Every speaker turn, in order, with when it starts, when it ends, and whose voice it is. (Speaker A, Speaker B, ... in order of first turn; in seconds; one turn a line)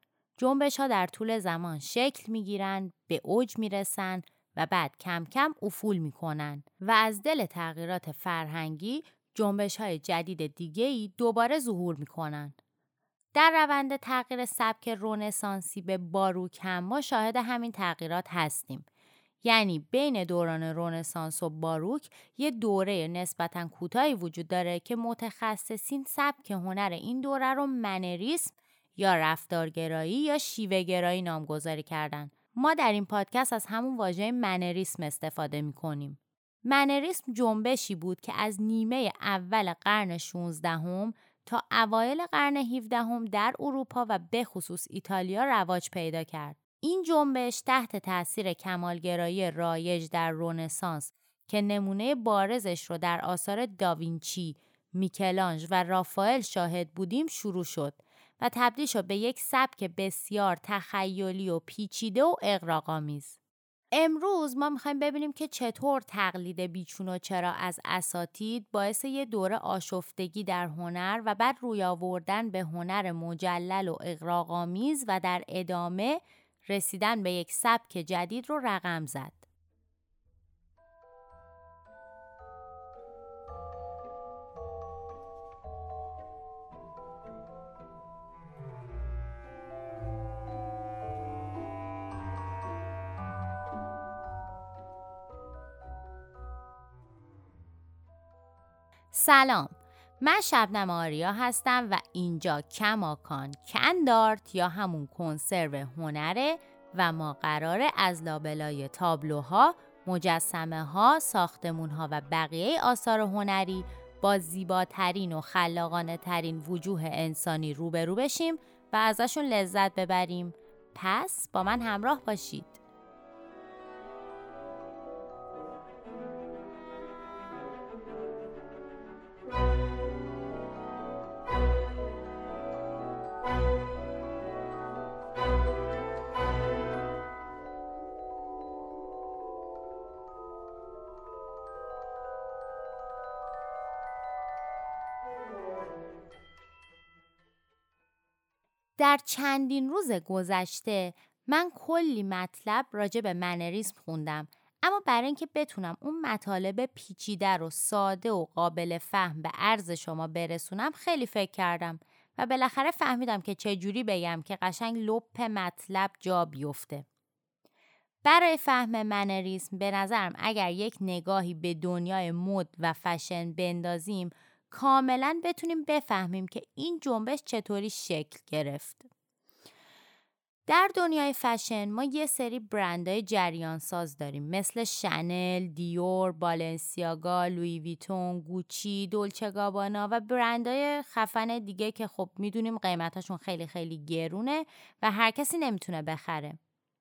Speaker A: 0.4-12.5
Speaker A: 13.3-18.9
Speaker A: 19.4-63.4
Speaker A: 63.9-79.4
Speaker A: 99.1-122.8
Speaker A: 149.0-167.0
Speaker A: 168.2-179.1
Speaker A: 180.7-196.6